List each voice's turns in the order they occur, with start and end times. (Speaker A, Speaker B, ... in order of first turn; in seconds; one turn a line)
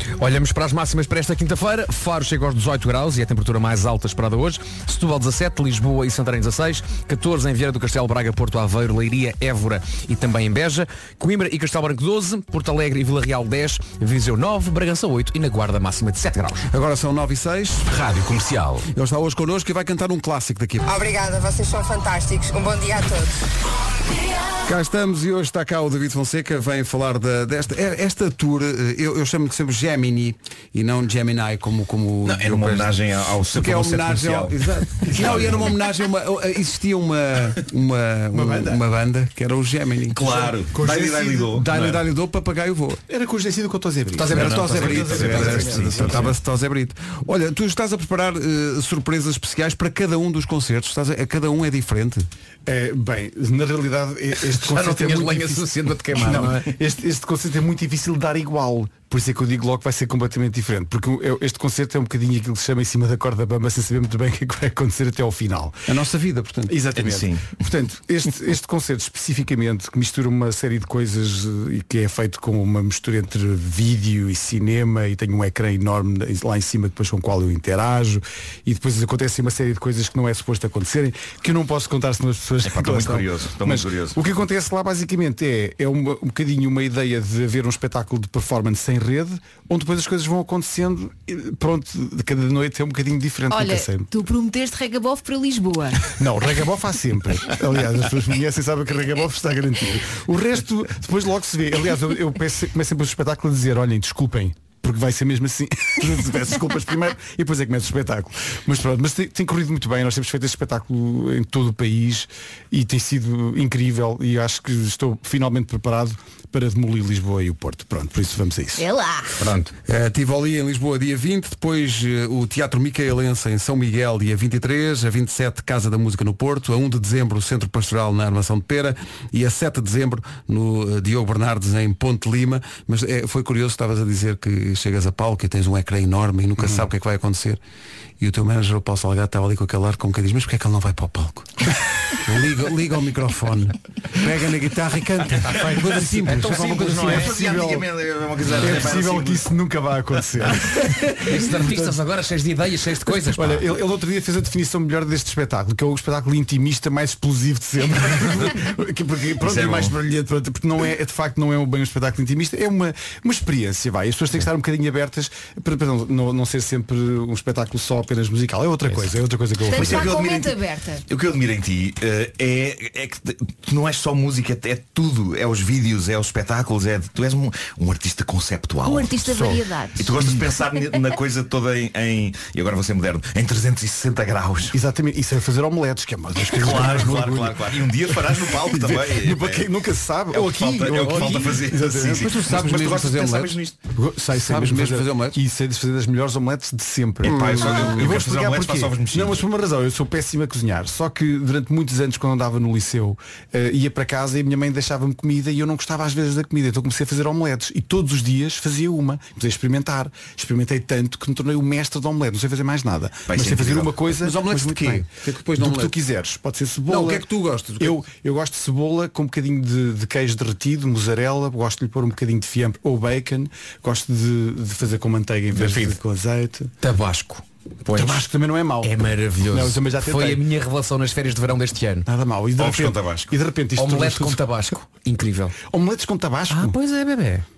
Speaker A: 0.2-16.7
Speaker B: 16.7-18.0
Speaker A: 17.9-18.9
Speaker B: 18.9-20.9
Speaker C: 20.8-23.4
Speaker B: 24.6-40.2
Speaker D: 32.2-35.8
Speaker E: 35.1-35.6
Speaker E: 38.3-38.8
Speaker D: 40.1-42.0
Speaker E: 40.2-41.6
Speaker B: 41.5-43.0
Speaker E: 43.1-46.3
Speaker A: 44.1-46.3
Speaker B: 44.3-52.3
Speaker D: 44.4-46.3
Speaker E: 52.7-55.6
Speaker A: 54.5-56.7
Speaker E: 56.2-65.8
Speaker B: 65.9-66.8
Speaker E: 66.7-94.1
Speaker D: 67.0-67.6
Speaker D: 82.6-84.2
Speaker F: 93.5-96.1
Speaker E: 96.2-118.8
Speaker F: 118.8-119.3
Speaker A: 119.4-119.7
Speaker B: 119.9-137.6
Speaker E: 136.6-136.8
Speaker B: 138.2-141.5
Speaker B: 142.2-147.2
Speaker E: 145.5-147.9
Speaker A: 146.1-147.4
Speaker D: 147.1-149.5
Speaker A: 148.4-148.9
Speaker E: 148.6-151.9
Speaker A: 150.9-153.7
Speaker E: 153.3-170.1
Speaker D: 159.4-159.9
Speaker F: 169.7-171.0
Speaker D: 169.8-170.6
Speaker D: 171.1-179.3
Speaker F: 178.8-180.2
Speaker D: 180.0-184.8
Speaker E: 184.7-192.8
Speaker D: 186.5-189.7
Speaker D: 190.3-193.8
Speaker A: 191.0-191.3
Speaker B: 192.0-193.6
Speaker E: 193.9-215.1
Speaker B: 194.3-195.4
Speaker D: 197.2-199.4
Speaker B: 197.2-198.2
Speaker D: 213.3-214.0
Speaker B: 214.1-216.0
Speaker E: 215.6-217.2
Speaker B: 216.9-218.1
Speaker E: 217.8-226.7
Speaker A: 225.5-226.0
Speaker A: 226.8-228.3
Speaker E: 227.9-228.9
Speaker A: 228.8-232.1
Speaker E: 229.5-230.4
Speaker E: 232.1-234.4
Speaker D: 232.6-233.3
Speaker A: 233.8-235.6
Speaker E: 235.6-236.8
Speaker A: 236.5-237.4